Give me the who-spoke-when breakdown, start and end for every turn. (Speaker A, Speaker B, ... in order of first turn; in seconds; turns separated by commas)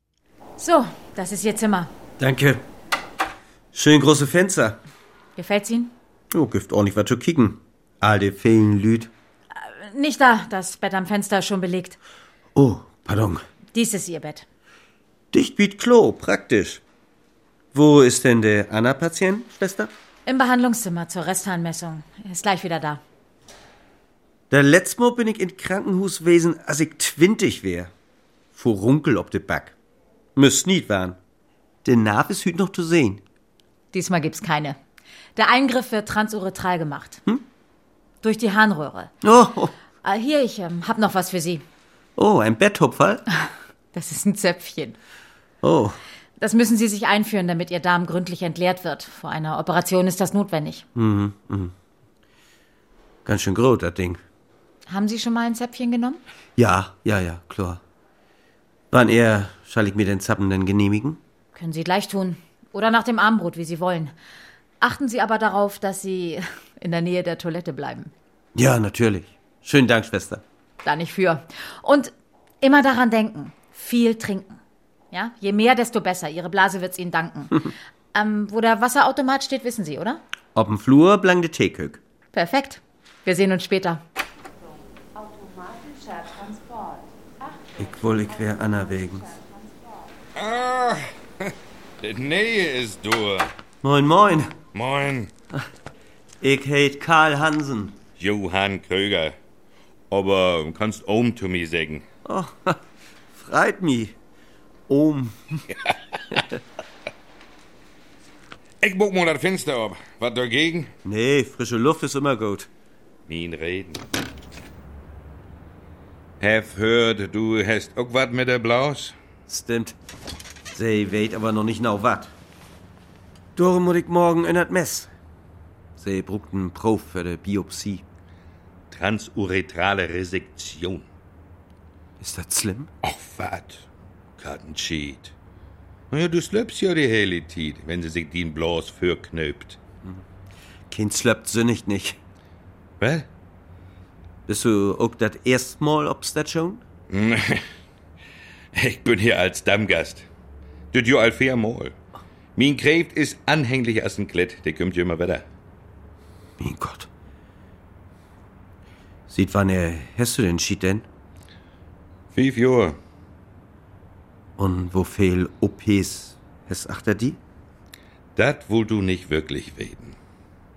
Speaker A: 0.6-1.9, Speaker B: 2.2-2.6, Speaker B: 3.7-4.8, Speaker A: 5.4-5.9, Speaker B: 6.3-9.1, Speaker A: 9.6-12.0, Speaker B: 12.6-13.4, Speaker A: 13.7-14.4, Speaker B: 15.3-16.8, Speaker B: 17.7-19.9, Speaker A: 20.2-23.0, Speaker B: 24.5-27.9, Speaker B: 28.5-29.7, Speaker B: 30.4-31.2, Speaker B: 31.8-33.2, Speaker A: 33.9-34.8, Speaker A: 35.4-37.2, Speaker A: 38.2-39.1, Speaker B: 39.2-39.7, Speaker A: 40.0-41.6, Speaker B: 42.2-43.2, Speaker A: 43.9-45.0, Speaker B: 45.6-46.0, Speaker A: 46.4-50.8, Speaker B: 51.0-51.7, Speaker B: 53.2-54.2, Speaker A: 54.9-56.2, Speaker B: 56.6-57.8, Speaker B: 58.9-61.2, Speaker A: 61.5-64.1, Speaker A: 64.8-68.1, Speaker B: 68.5-70.4, Speaker A: 70.8-74.6, Speaker A: 75.1-80.2, Speaker B: 80.5-82.0, Speaker A: 82.3-84.0, Speaker B: 87.8-89.3, Speaker C: 90.3-91.5, Speaker C: 92.0-93.5, Speaker B: 93.8-94.5, Speaker C: 94.7-95.3, Speaker B: 96.4-98.0, Speaker C: 98.2-99.3, Speaker C: 100.1-102.0, Speaker B: 102.2-102.8, Speaker B: 103.3-104.2, Speaker B: 104.9-105.7, Speaker C: 108.8-110.9, Speaker B: 111.0-112.7, Speaker C: 113.3-114.0, Speaker C: 116.4-119.1, Speaker B: 119.5-119.9, Speaker B: 120.7-122.3, Speaker B: 123.5-125.1, Speaker B: 126.0-128.0, Speaker C: 128.9-131.1, Speaker B: 132.2-132.9, Speaker C: 133.0-133.8, Speaker C: 134.4-135.3, Speaker C: 136.1-139.8, Speaker B: 140.9-142.2, Speaker C: 143.0-143.3, Speaker B: 144.5-146.8, Speaker C: 147.1-147.6, Speaker C: 148.7-150.2, Speaker C: 150.9-151.9, Speaker C: 152.6-155.4, Speaker B: 156.6-157.1, Speaker B: 159.3-161.1, Speaker C: 162.3-163.0, Speaker B: 164.6-167.4, Speaker C: 168.3-170.2